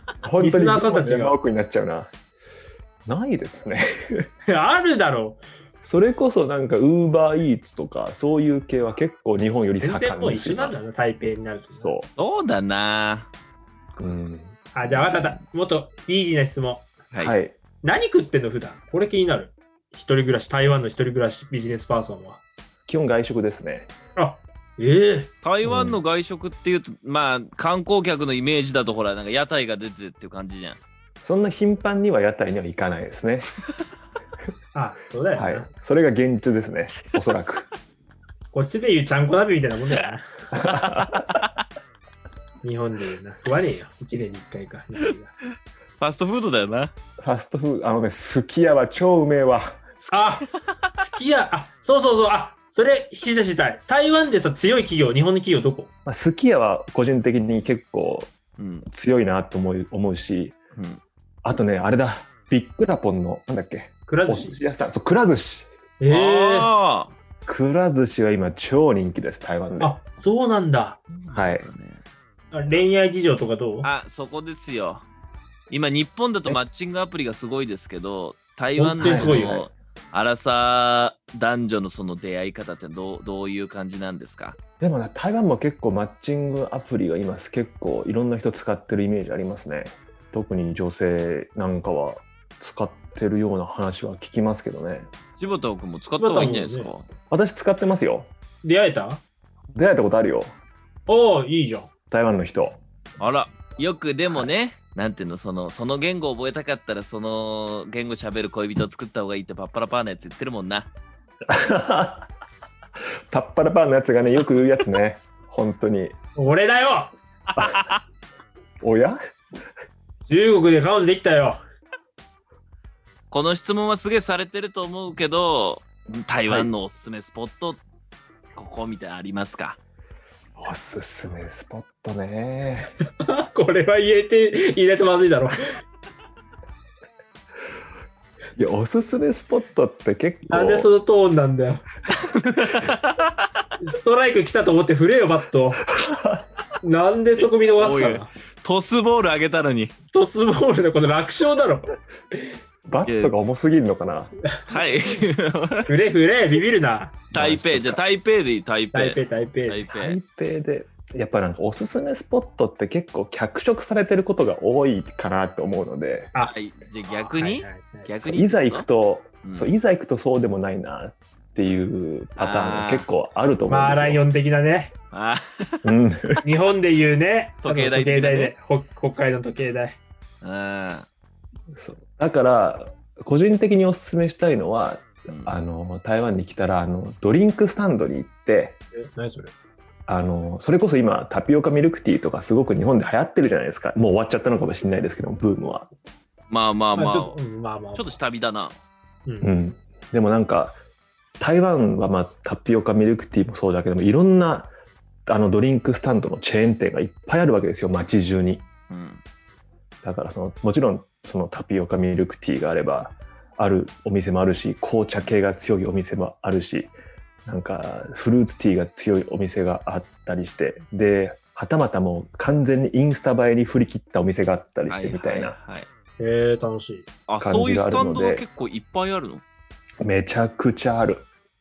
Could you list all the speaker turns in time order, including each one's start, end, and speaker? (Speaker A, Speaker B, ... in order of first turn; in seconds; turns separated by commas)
Speaker A: 0.2-2.1, Speaker B: 0.4-1.4, Speaker A: 3.1-4.3, Speaker B: 4.5-5.4, Speaker A: 5.8-10.8, Speaker B: 9.8-11.9, Speaker A: 11.8-12.1, Speaker C: 12.2-13.3, Speaker A: 14.0-14.6, Speaker B: 14.7-16.9, Speaker A: 17.2-17.6, Speaker B: 17.8-22.4, Speaker A: 22.9-23.9, Speaker B: 24.2-25.3, Speaker C: 25.4-30.8, Speaker A: 25.6-26.0, Speaker A: 31.2-33.5, Speaker B: 34.7-35.7, Speaker A: 35.4-37.7, Speaker B: 38.5-40.3, Speaker A: 40.5-41.4, Speaker C: 40.6-41.6, Speaker B: 42.6-45.3, Speaker C: 46.0-46.9, Speaker A: 47.2-50.3, Speaker B: 50.1-55.9, Speaker C: 50.7-50.9, Speaker A: 56.0-58.3, Speaker C: 58.6-58.9, Speaker A: 58.9-60.6, Speaker C: 60.8-61.0, Speaker A: 61.4-65.7, Speaker B: 64.1-64.6, Speaker B: 66.0-66.7, Speaker C: 66.1-67.1, Speaker A: 67.5-70.0, Speaker B: 69.8-71.0, Speaker C: 71.1-72.0, Speaker A: 71.3-71.7, Speaker B: 72.5-73.9, Speaker C: 73.8-75.0, Speaker C: 75.7-84.6, Speaker A: 78.8-79.6, Speaker B: 79.0-79.7, Speaker A: 84.8-95.1, Speaker C: 95.4-97.1, Speaker B: 96.2-96.9, Speaker A: 97.3-98.3, Speaker B: 98.6-99.2, Speaker A: 99.8-100.6, Speaker B: 101.1-101.9, Speaker A: 102.1-102.8, Speaker C: 103.2-110.9, Speaker A: 111.5-112.3, Speaker A: 113.3-116.2, Speaker B: 116.4-117.1, Speaker C: 117.5-118.0, Speaker A: 118.8-119.2, Speaker B: 120.3-121.6, Speaker C: 123.3-127.8, Speaker A: 126.5-126.7, Speaker C: 128.6-129.8, Speaker A: 130.6-132.9, Speaker B: 133.2-135.8, Speaker A: 138.6-140.9, Speaker B: 140.5-141.9, Speaker C: 142.1-143.5, Speaker B: 143.8-145.8, Speaker A: 145.9-146.4, Speaker B: 146.8-148.3, Speaker C: 147.8-149.9, Speaker B: 150.1-152.4, Speaker A: 152.8-154.3, Speaker C: 153.1-153.3, Speaker C: 154.7-155.9, Speaker B: 155.9-157.3, Speaker A: 157.3-158.0, Speaker C: 157.3-160.2, Speaker B: 158.9-159.8, Speaker A: 159.9-166.3, Speaker C: 166.4-168.9, Speaker B: 167.3-168.1, Speaker A: 168.2-174.3, Speaker C: 169.4-169.7, Speaker C: 172.4-173.1, Speaker B: 173.7-174.9, Speaker C: 175.1-175.9, Speaker A: 175.8-176.4, Speaker B: 176.4-180.0, Speaker C: 177.6-178.5, Speaker C: 180.4-181.1, Speaker A: 181.7-188.8, Speaker C: 185.3-185.6, Speaker B: 188.9-189.5, Speaker A: 190.1-195.9, Speaker C: 196.5-197.4, Speaker B: 197.0-198.2, Speaker C: 197.9-198.8, Speaker B: 199.3-199.5, Speaker A: 199.4-200.8, Speaker A: 201.4-204.7, Speaker A: 205.3-208.7, Speaker C: 208.9-209.2, Speaker A: 210.0-216.9, Speaker A: 217.5-225.6, Speaker C: 224.9-225.9, Speaker B: 226.2-227.1, Speaker C: 227.3-229.4, Speaker A: 227.4-228.4, Speaker A: 230.0-231.3